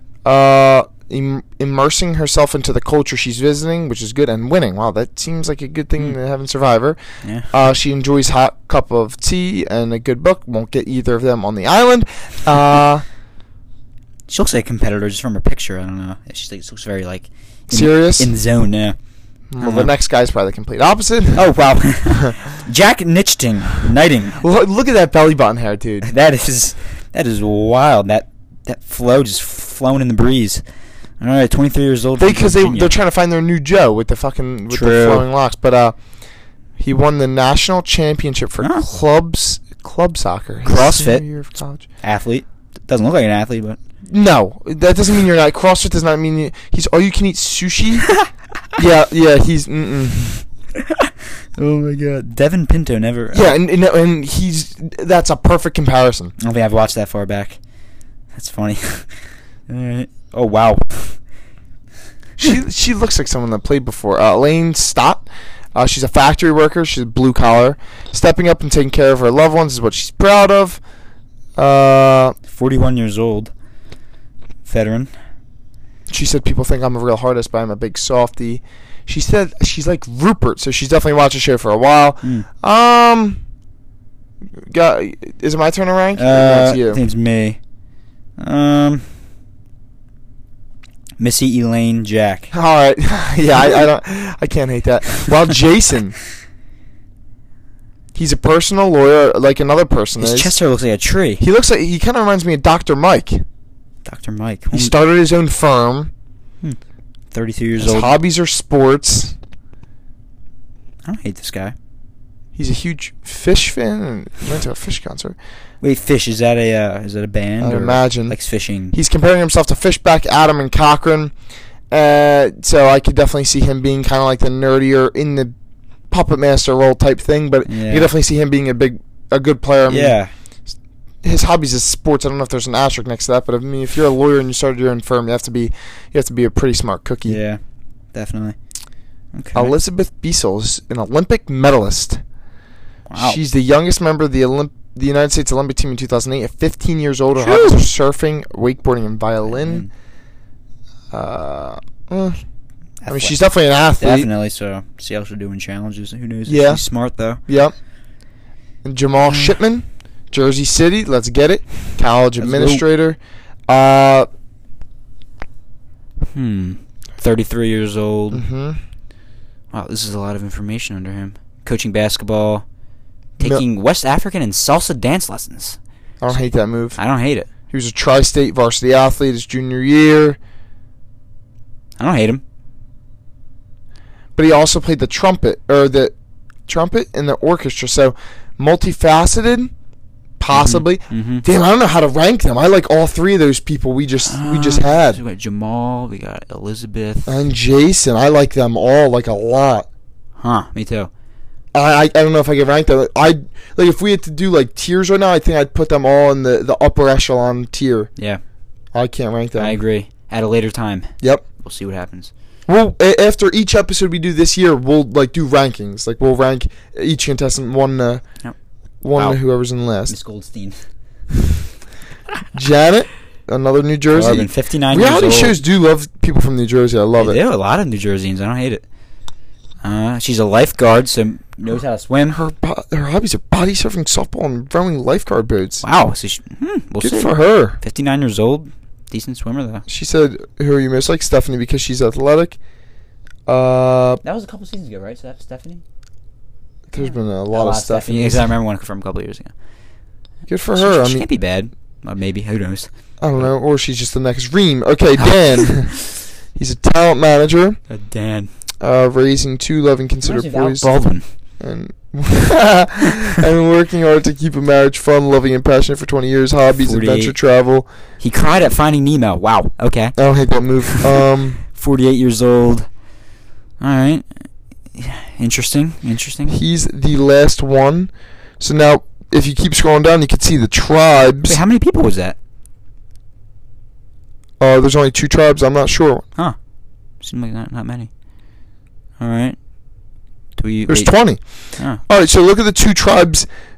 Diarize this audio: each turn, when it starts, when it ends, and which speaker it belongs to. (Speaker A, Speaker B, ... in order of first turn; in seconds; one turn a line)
Speaker A: 0.2-7.0
Speaker B: 7.2-7.5
Speaker A: 7.5-13.0
Speaker B: 14.3-18.9
Speaker A: 17.7-18.3
Speaker A: 19.5-21.5
Speaker B: 19.6-19.9
Speaker B: 21.3-24.4
Speaker A: 24.4-26.1
Speaker B: 26.0-30.6
Speaker B: 31.2-32.9
Speaker A: 32.2-36.0
Speaker B: 34.7-35.2
Speaker A: 36.8-41.8
Speaker B: 40.6-41.2
Speaker B: 42.0-43.8
Speaker A: 44.1-48.1
Speaker A: 48.8-50.4
Speaker B: 50.8-53.5
Speaker A: 53.3-56.3
Speaker B: 56.4-57.6
Speaker B: 58.3-59.1
Speaker B: 59.7-61.2
Speaker A: 62.4-70.8
Speaker A: 71.5-72.4
Speaker B: 72.5-73.5
Speaker B: 74.7-75.1
Speaker A: 76.1-83.4
Speaker A: 84.6-87.0
Speaker B: 86.2-87.6
Speaker B: 88.4-89.1
Speaker B: 91.2-92.5
Speaker A: 92.5-96.1
Speaker A: 98.1-100.5
Speaker B: 100.2-101.4
Speaker A: 101.4-103.4
Speaker B: 104.0-105.0
Speaker A: 104.7-106.1
Speaker B: 107.3-108.1
Speaker A: 107.8-109.3
Speaker B: 111.0-111.7
Speaker A: 112.5-115.3
Speaker B: 115.8-119.0
Speaker A: 117.6-118.3
Speaker A: 118.9-121.3
Speaker A: 121.9-125.5
Speaker A: 126.1-130.2
Speaker B: 127.7-128.1
Speaker B: 129.9-130.3
Speaker A: 131.2-137.4
Speaker B: 137.2-137.6
Speaker B: 138.1-138.6
Speaker B: 139.3-139.8
Speaker A: 139.5-142.2
Speaker B: 143.1-143.4
Speaker A: 143.2-149.9
Speaker B: 147.4-147.8
Speaker B: 149.4-149.9
Speaker A: 151.1-152.4
Speaker B: 153.0-153.4
Speaker A: 153.1-154.3
Speaker B: 154.0-157.4
Speaker A: 156.5-156.8
Speaker A: 157.5-157.7
Speaker A: 158.8-164.3
Speaker B: 159.2-159.5
Speaker B: 162.4-162.8
Speaker B: 166.3-168.4
Speaker A: 168.3-168.8
Speaker B: 169.7-172.6
Speaker B: 173.4-175.8
Speaker A: 176.2-177.0
Speaker B: 176.9-177.5
Speaker A: 177.7-180.4
Speaker B: 182.0-182.4
Speaker A: 184.3-186.1
Speaker A: 186.7-189.7
Speaker A: 190.4-195.2
Speaker B: 190.5-191.4
Speaker B: 194.2-197.4
Speaker A: 197.3-199.9
Speaker B: 200.4-201.1
Speaker A: 201.7-208.1
Speaker A: 208.9-209.8
Speaker B: 209.6-212.3
Speaker A: 212.7-218.2
Speaker A: 219.0-220.1
Speaker B: 220.1-220.8
Speaker A: 222.5-227.4
Speaker B: 224.1-225.6
Speaker B: 227.2-228.8
Speaker B: 229.8-232.4
Speaker A: 232.3-235.8
Speaker B: 235.8-239.8
Speaker A: 237.0-237.8
Speaker A: 239.9-242.6
Speaker A: 243.4-244.2
Speaker B: 244.2-245.8
Speaker A: 246.9-248.5
Speaker B: 247.5-249.5
Speaker A: 250.5-251.3
Speaker B: 250.8-253.5
Speaker A: 253.2-257.8
Speaker B: 257.9-258.5
Speaker A: 258.8-260.9
Speaker B: 260.2-261.2
Speaker A: 261.6-267.9
Speaker B: 266.8-267.3
Speaker B: 268.2-270.1
Speaker A: 270.1-271.6
Speaker B: 270.8-272.9
Speaker B: 273.8-274.3
Speaker B: 274.9-276.6
Speaker A: 276.5-281.6
Speaker B: 281.4-282.4
Speaker A: 284.6-286.2
Speaker B: 287.2-288.1
Speaker B: 289.2-289.6
Speaker B: 290.6-291.1
Speaker A: 290.9-293.5
Speaker B: 291.8-292.0